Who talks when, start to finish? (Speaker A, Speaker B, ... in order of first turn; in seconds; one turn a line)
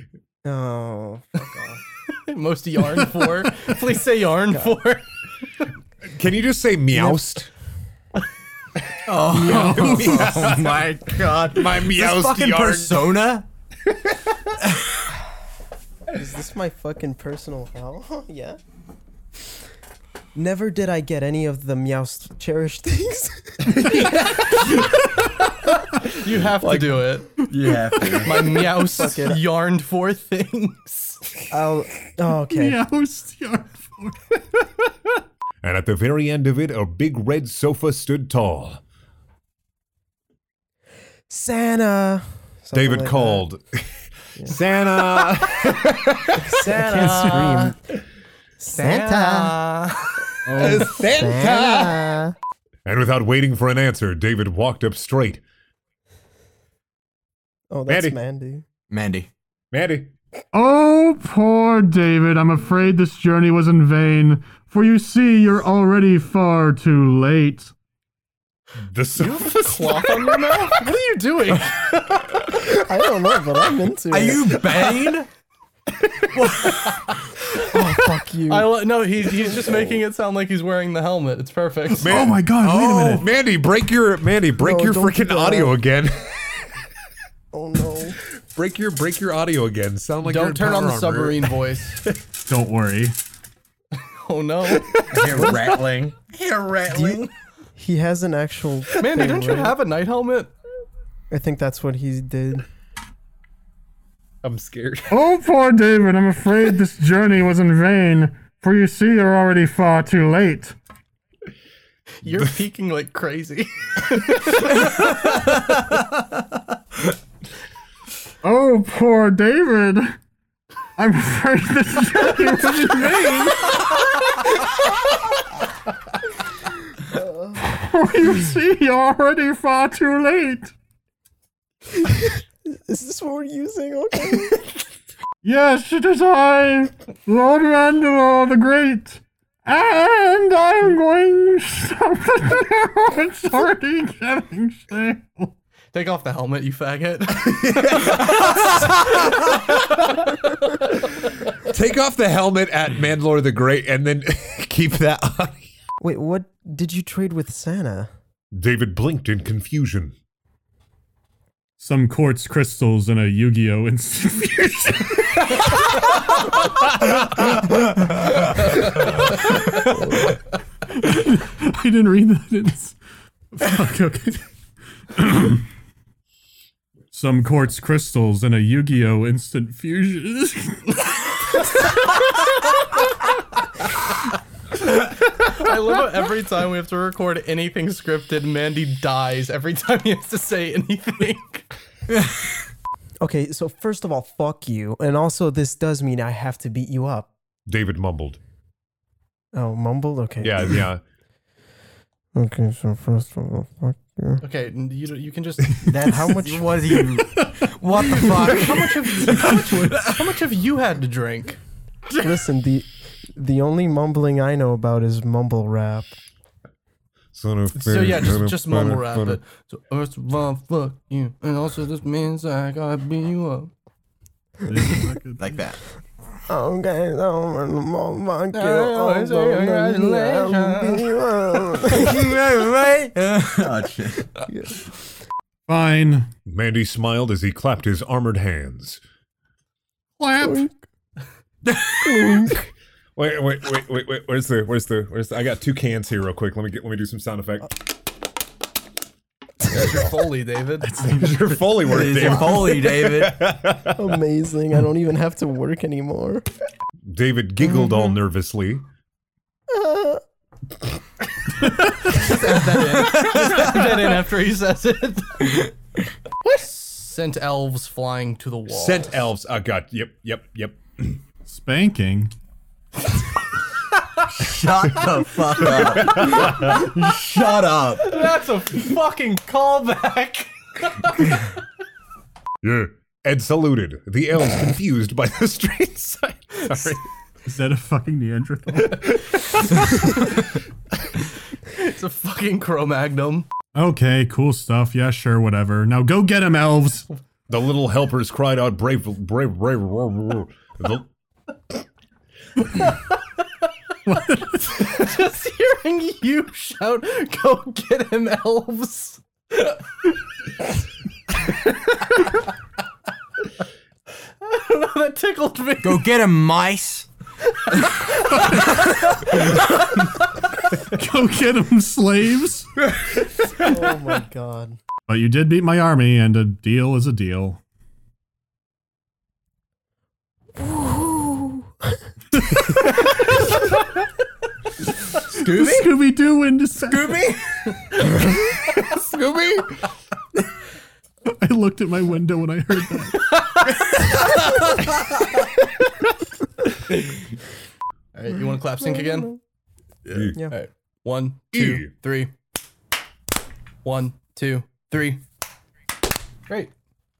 Speaker A: 0.4-1.8
Speaker B: 2.1-5.0
Speaker A: 4.5-4.8
Speaker C: 6.1-7.5
Speaker A: 6.9-7.2
Speaker D: 9.1-13.4
Speaker E: 9.3-10.4
Speaker A: 9.3-10.3
Speaker C: 9.5-13.3
Speaker A: 16.1-18.6
Speaker A: 20.3-23.9
Speaker C: 23.7-24.1
Speaker B: 26.0-27.3
Speaker D: 27.5-28.6
Speaker B: 28.1-31.2
Speaker A: 28.8-29.4
Speaker A: 31.5-32.8
Speaker E: 32.5-34.9
Speaker C: 35.6-38.8
Speaker A: 41.3-43.4
Speaker C: 42.7-46.9
Speaker A: 46.4-47.8
Speaker B: 46.6-47.7
Speaker A: 48.6-49.6
Speaker B: 48.7-49.9
Speaker E: 50.5-51.0
Speaker C: 50.5-52.2
Speaker A: 50.9-52.3
Speaker C: 52.8-55.4
Speaker A: 57.7-58.6
Speaker C: 57.9-58.1
Speaker D: 58.9-59.3
Speaker C: 59.7-60.1
Speaker E: 60.5-67.7
Speaker C: 68.8-69.9
Speaker B: 69.2-72.4
Speaker A: 72.6-74.9
Speaker D: 74.1-75.3
Speaker B: 76.3-77.2
Speaker A: 77.6-80.0
Speaker B: 78.5-82.1
Speaker E: 82.0-83.3
Speaker C: 82.0-86.4
Speaker A: 84.6-85.8
Speaker A: 87.5-88.2
Speaker C: 88.5-91.5
Speaker B: 90.2-92.0
Speaker E: 92.5-93.2
Speaker B: 94.0-95.0
Speaker D: 94.9-97.3
Speaker A: 96.9-99.8
Speaker B: 99.0-100.5
Speaker A: 101.3-102.6
Speaker C: 104.4-105.2
Speaker E: 105.1-110.7
Speaker B: 112.2-115.4
Speaker E: 118.4-120.2
Speaker E: 121.0-123.9
Speaker A: 127.1-127.6
Speaker E: 127.6-130.7
Speaker A: 132.0-134.6
Speaker E: 135.4-145.5
Speaker B: 145.9-149.0
Speaker C: 147.4-149.8
Speaker C: 151.6-155.7
Speaker A: 156.0-158.1
Speaker C: 158.5-160.1
Speaker E: 161.8-165.5
Speaker E: 170.9-172.9
Speaker E: 173.5-174.4
Speaker E: 175.1-175.7
Speaker E: 177.1-181.0
Speaker B: 185.0-191.7
Speaker A: 193.2-197.3
Speaker C: 197.7-198.4
Speaker A: 199.5-200.8
Speaker C: 200.4-201.0
Speaker A: 202.3-204.4
Speaker B: 204.4-206.4
Speaker A: 205.9-207.0
Speaker D: 205.9-207.3
Speaker B: 207.7-211.6
Speaker E: 209.3-209.9
Speaker A: 212.2-216.1
Speaker C: 217.3-219.4
Speaker B: 217.7-223.7
Speaker E: 224.6-225.5
Speaker D: 225.4-225.8
Speaker A: 226.5-232.2
Speaker B: 228.5-231.2
Speaker D: 231.9-234.3
Speaker A: 234.5-234.8
Speaker E: 235.7-236.3
Speaker C: 236.5-239.0
Speaker E: 240.2-240.7
Speaker A: 240.4-240.7
Speaker D: 241.7-242.3
Speaker A: 242.0-242.5
Speaker C: 243.2-247.7
Speaker B: 249.6-250.9
Speaker C: 250.9-254.1
Speaker D: 251.8-253.3
Speaker A: 253.9-256.5
Speaker C: 257.1-258.8
Speaker A: 259.7-260.2
Speaker B: 262.0-265.7
Speaker B: 266.4-269.2
Speaker C: 268.7-271.2
Speaker E: 271.4-272.3
Speaker D: 274.4-278.1
Speaker C: 275.9-276.7
Speaker B: 278.0-281.4
Speaker C: 282.6-287.0
Speaker E: 287.4-290.1
Speaker B: 291.6-293.5
Speaker E: 293.7-297.0
Speaker C: 297.5-301.1
Speaker E: 304.1-304.9
Speaker B: 304.7-309.7
Speaker B: 314.4-316.1
Speaker D: 315.8-317.1
Speaker B: 317.8-318.9
Speaker E: 320.9-322.7
Speaker A: 323.6-324.8
Speaker E: 325.1-327.6
Speaker A: 330.6-332.0
Speaker D: 335.3-335.9
Speaker E: 335.4-337.3
Speaker D: 336.8-337.4
Speaker C: 338.7-339.7
Speaker E: 341.2-343.3
Speaker B: 348.1-349.3
Speaker A: 348.8-349.4
Speaker B: 350.1-352.3
Speaker C: 350.1-350.4
Speaker C: 351.5-351.9
Speaker B: 353.8-355.2